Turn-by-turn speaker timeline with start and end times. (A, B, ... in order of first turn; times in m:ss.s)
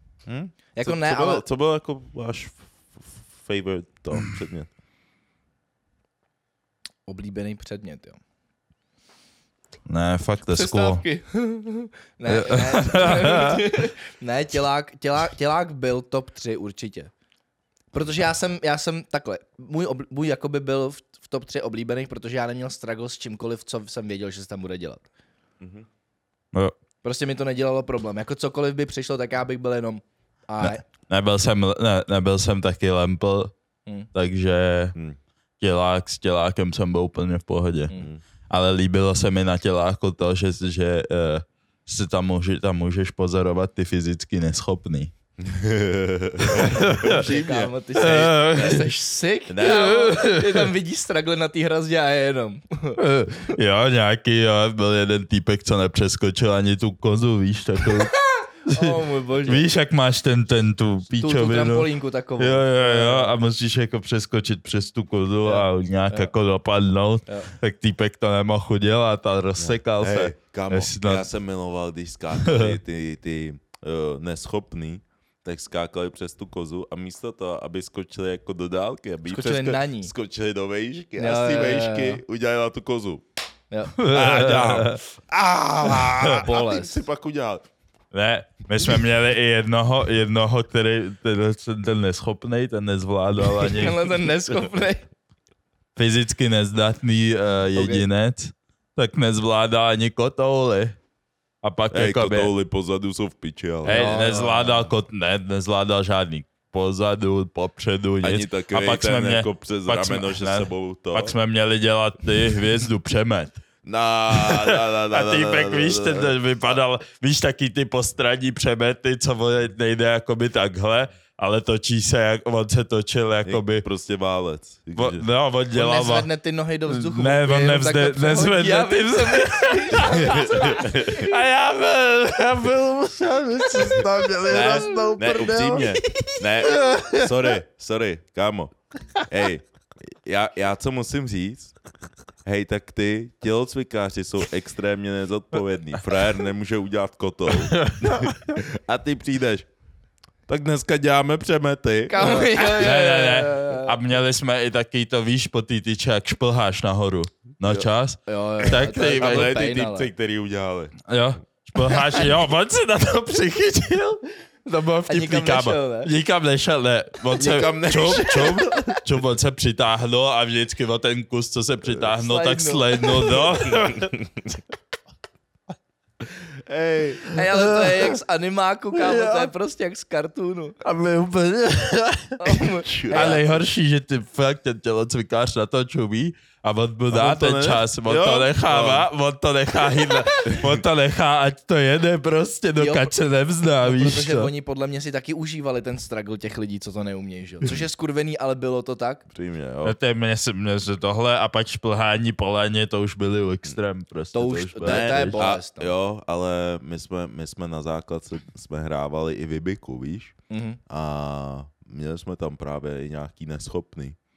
0:00.2-0:04.7 A
0:00.7-0:01.4 B
0:07.0-0:08.2 B
0:09.8-0:11.0 C
0:10.4-0:17.1 B
0:12.3-0:13.6 C
0:17.9-0:25.0 B
0:25.6-0:25.9 A
0:27.0-0:30.8 B
0:30.6-0:33.5 C
0:34.1-0:34.9 C
0:35.6-0:37.9 C
0:37.9-0:38.2 A
0:38.5-0:45.1 C
0:45.4-0:47.7 A
0:46.5-0:47.3 C
0:46.5-0:53.0 B
0:47.9-0:48.9 C
0:49.5-0:49.9 A
0:49.6-0:50.7 C
0:53.0-0:58.2 C
0:58.6-0:59.7 B
0:58.7-1:11.3 C
1:01.1-1:03.4 B
1:05.4-1:06.3 B
1:09.6-1:23.2 A
1:12.3-1:12.8 C
1:19.2-1:20.1 B
1:21.2-1:22.2 B
1:23.7-1:24.0 B
1:24.0-1:25.0 C
1:24.0-1:27.6 A
1:26.1-1:26.4 C
1:26.3-1:27.0 B
1:28.1-1:34.1 C
1:33.6-1:35.1 B
1:36.0-1:41.0 C
1:37.7-1:38.1 B
1:41.6-1:42.5 C
1:41.9-1:44.0 A
1:43.8-1:44.9 B
1:43.8-1:53.5 C
1:48.2-1:51.3 A
1:53.8-1:56.7 A
1:54.3-2:03.8 C
2:03.4-2:05.3 A
2:05.0-2:06.3 C
2:05.7-2:11.0 B
2:06.9-2:15.8 C
2:10.1-2:11.3 A
2:14.4-2:16.4 B
2:14.5-2:18.7 A
2:16.7-2:17.4 C
2:19.3-2:21.7 A
2:22.4-2:29.7 A
2:27.6-2:28.5 C
2:30.5-2:32.5 A
2:32.1-2:34.0 B
2:32.5-2:39.5 C
2:37.6-2:37.9 A
2:38.3-2:40.1 B
2:38.9-2:41.0 A
2:41.1-2:54.2 C
2:41.9-2:42.3 B
2:45.1-2:46.1 B
2:47.3-2:49.0 A
2:52.1-2:53.4 B
2:53.7-2:54.3 A
2:56.5-2:57.3 A
2:57.3-3:00.8 B
2:57.4-2:58.2 C
2:59.0-2:59.5 C
3:00.8-3:14.5 C
3:02.4-3:03.4 B
3:02.8-3:03.6 A
3:07.1-3:09.1 A
3:10.5-3:10.8 A
3:12.8-3:19.2 B
3:19.3-3:20.0 A
3:19.8-3:25.4 C
3:24.3-3:25.9 B
3:24.8-3:30.3 A
3:30.5-3:30.8 B
3:30.9-3:34.2 A